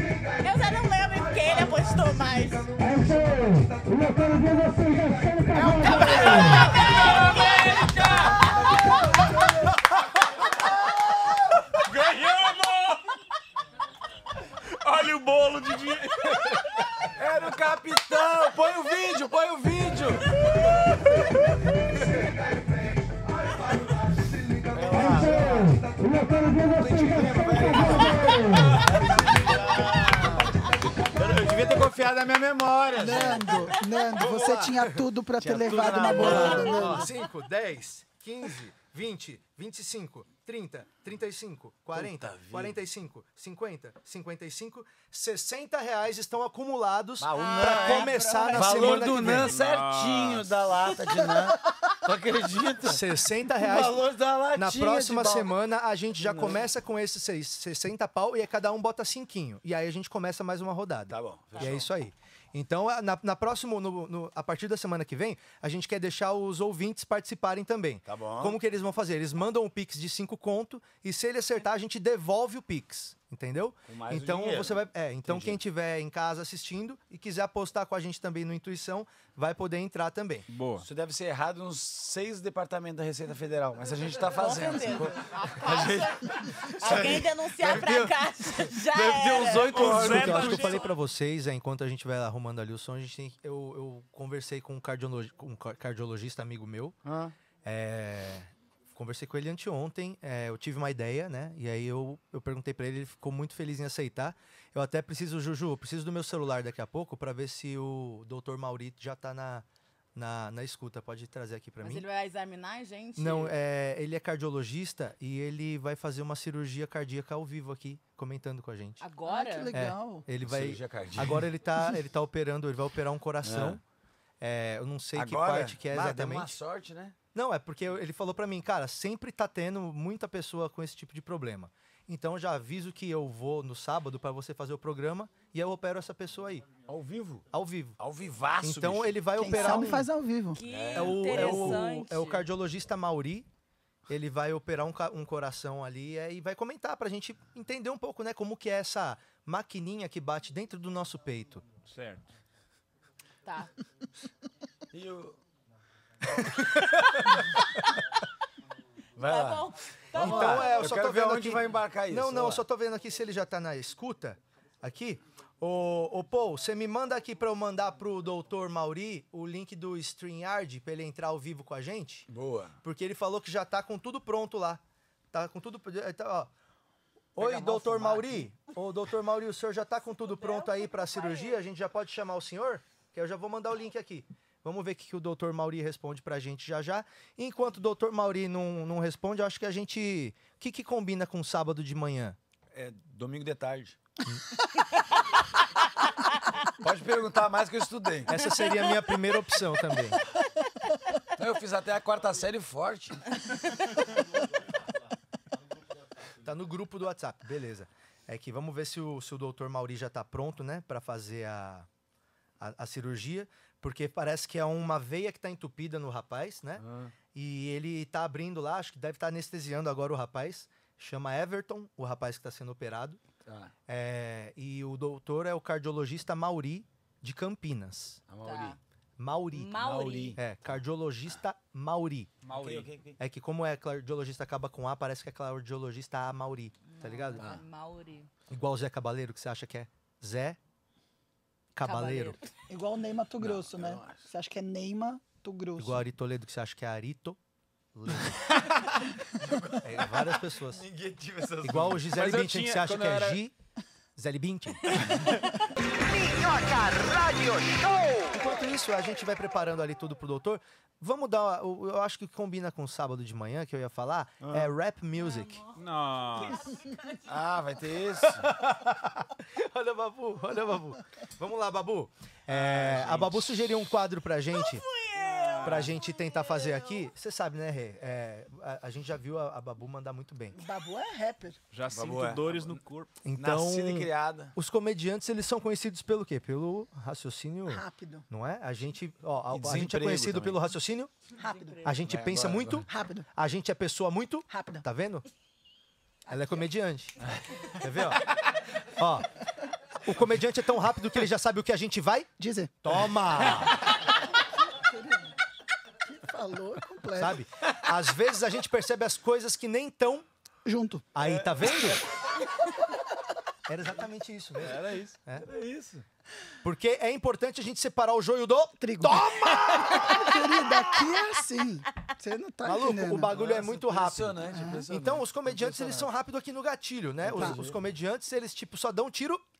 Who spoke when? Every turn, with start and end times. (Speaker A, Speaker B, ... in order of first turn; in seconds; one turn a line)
Speaker A: 0.4-2.9
Speaker B: 5.5-7.4
Speaker A: 5.6-8.5
Speaker C: 5.9-8.5
Speaker B: 10.5-11.6
Speaker C: 11.8-13.1
Speaker C: 14.7-16.6
Speaker B: 17.1-20.4
Speaker B: 24.7-25.8
Speaker D: 24.9-25.5
Speaker B: 26.6-33.7
Speaker E: 33.0-37.1
Speaker D: 34.1-35.0
Speaker B: 35.4-37.1
Speaker D: 36.1-49.5
Speaker B: 41.9-42.8
Speaker B: 47.2-53.0
Speaker A: 47.3-49.0
Speaker C: 49.3-50.7
Speaker D: 52.8-80.5
Speaker B: 53.6-55.5
Speaker B: 56.2-56.7
Speaker B: 61.1-61.9
Speaker B: 68.1-68.6
Speaker B: 73.9-75.6
Speaker C: 80.5-80.9
Speaker B: 80.8-90.8
Speaker A: 84.3-89.8
Speaker C: 89.7-90.9
Speaker D: 89.8-97.0
Speaker B: 97.0-97.3
Speaker D: 97.6-112.0
Speaker A: 111.8-113.5
Speaker D: 113.2-119.0
Speaker A: 119.0-119.7
Speaker E: 119.3-120.3
Speaker D: 119.7-123.8
Speaker B: 120.4-121.5
Speaker B: 123.4-123.8
Speaker D: 124.4-126.6
Speaker B: 125.1-127.2
Speaker D: 127.3-136.7
Speaker B: 136.9-137.5
Speaker D: 137.5-138.0
Speaker B: 138.0-139.3
Speaker D: 138.6-140.1
Speaker E: 139.3-140.6
Speaker A: 139.6-139.8
Speaker A: 140.5-142.5
Speaker B: 140.7-141.8
Speaker D: 140.9-143.5
Speaker D: 144.1-151.7
Speaker C: 151.9-152.2
Speaker B: 154.9-155.4
Speaker B: 156.2-157.3
Speaker B: 159.2-162.6
Speaker A: 159.2-161.0
Speaker D: 160.1-172.3
Speaker B: 172.3-172.8
Speaker D: 172.8-176.5
Speaker B: 177.4-178.5
Speaker D: 177.4-192.4
Speaker A: 180.2-181.6
Speaker B: 192.7-194.0
Speaker B: 196.8-198.3
Speaker D: 198.3-200.2
Speaker B: 201.4-203.2
Speaker D: 206.4-211.9
Speaker D: 212.6-223.2
Speaker B: 216.8-217.1
Speaker B: 223.4-223.7
Speaker D: 223.9-228.2
Speaker B: 228.3-228.8
Speaker A: 228.4-228.8
Speaker D: 229.2-229.8
Speaker A: 229.5-230.4
Speaker B: 229.8-230.4
Speaker D: 230.3-232.4
Speaker C: 232.4-232.9
Speaker B: 232.5-233.2
Speaker D: 233.2-237.4
Speaker A: 236.9-238.3
Speaker D: 238.5-240.6
Speaker D: 241.8-242.4
Speaker A: 241.8-242.5
Speaker E: 242.7-246.0
Speaker B: 243.4-244.3
Speaker D: 245.8-247.4
Speaker D: 247.9-248.5
Speaker B: 248.3-252.1
Speaker D: 249.8-250.8
Speaker D: 251.6-253.6
Speaker C: 252.1-253.4
Speaker D: 254.2-255.0
Speaker F: 256.0-258.4
Speaker D: 258.3-265.6
Speaker B: 264.4-264.7
Speaker A: 265.2-267.5
Speaker C: 265.8-266.6
Speaker B: 267.3-268.5
Speaker D: 268.2-274.8
Speaker B: 272.5-273.4
Speaker A: 274.5-277.1
Speaker B: 275.3-275.8
Speaker C: 275.6-275.9
Speaker D: 275.6-280.6
Speaker E: 280.5-281.6
Speaker C: 281.7-283.1
Speaker B: 281.9-282.8
Speaker D: 283.2-291.1
Speaker B: 283.4-284.6
Speaker E: 287.7-288.3
Speaker B: 289.5-290.6
Speaker E: 291.4-291.9
Speaker A: 291.4-291.9
Speaker D: 291.8-295.2
Speaker B: 292.0-292.9
Speaker E: 292.9-293.3
Speaker E: 294.5-294.8
Speaker D: 296.3-297.2
Speaker D: 297.8-298.3
Speaker D: 298.9-299.3
Speaker D: 300.0-302.3
Speaker E: 302.4-303.0
Speaker D: 302.8-303.8
Speaker E: 304.7-305.4
Speaker E: 306.1-307.4
Speaker D: 307.1-310.3
Speaker E: 310.6-311.1
Speaker D: 311.1-312.1
Speaker B: 311.2-312.0
Speaker D: 313.7-315.5
Speaker C: 314.7-315.1
Speaker B: 314.9-316.1
Speaker D: 316.6-319.5
Speaker E: 318.8-323.3
Speaker B: 319.1-320.2
Speaker D: 322.6-329.4
Speaker B: 323.3-326.1
Speaker E: 324.5-324.9
Speaker B: 327.2-327.8
Speaker E: 327.4-327.6